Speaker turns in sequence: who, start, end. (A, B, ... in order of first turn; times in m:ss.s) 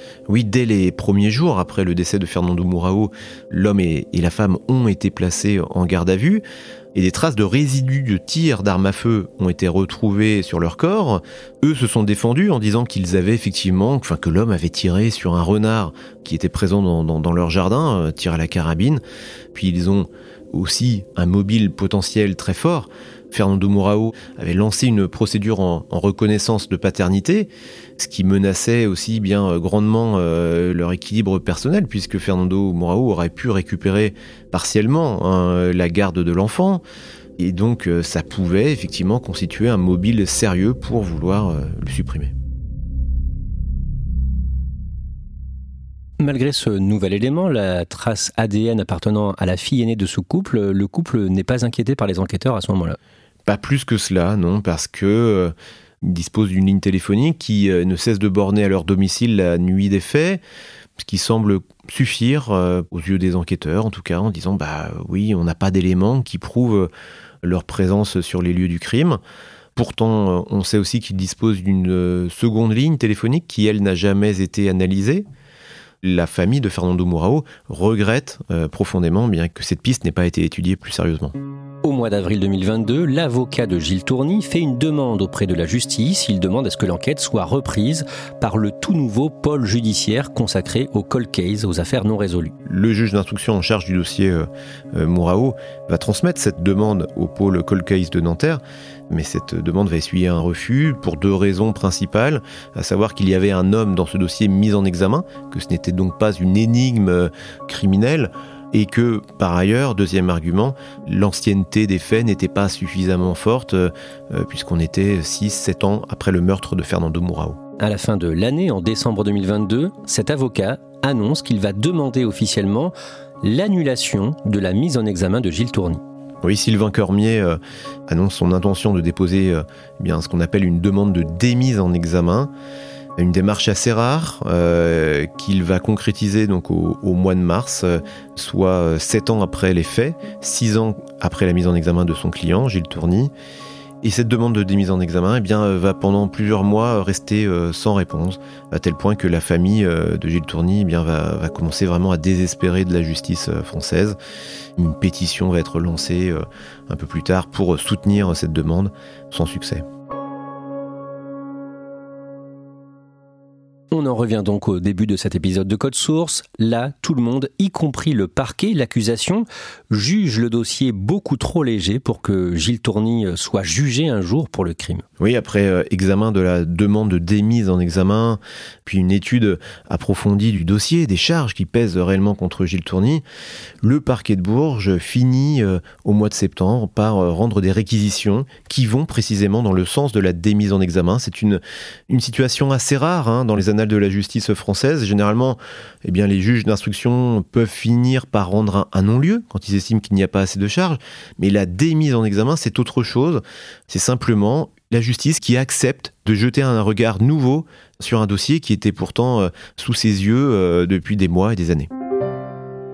0:00.3-0:19.0 A
0:19.5-0:36.8 A
0:37.4-0:42.3 A
0:46.2-0:53.0 B
0:53.5-1:00.4 A
1:01.0-1:06.9 A
1:07.4-1:09.2 A
1:09.8-1:15.2 A
1:16.0-1:21.4 A
1:21.8-1:32.6 B
1:32.6-1:57.6 A
1:57.8-2:06.0 B
2:06.4-2:12.5 A
2:13.2-2:23.3 A
2:24.0-2:34.2 A
2:34.8-2:39.8 A
2:43.9-2:55.0 B
2:55.2-3:03.2 A
3:03.8-3:31.9 A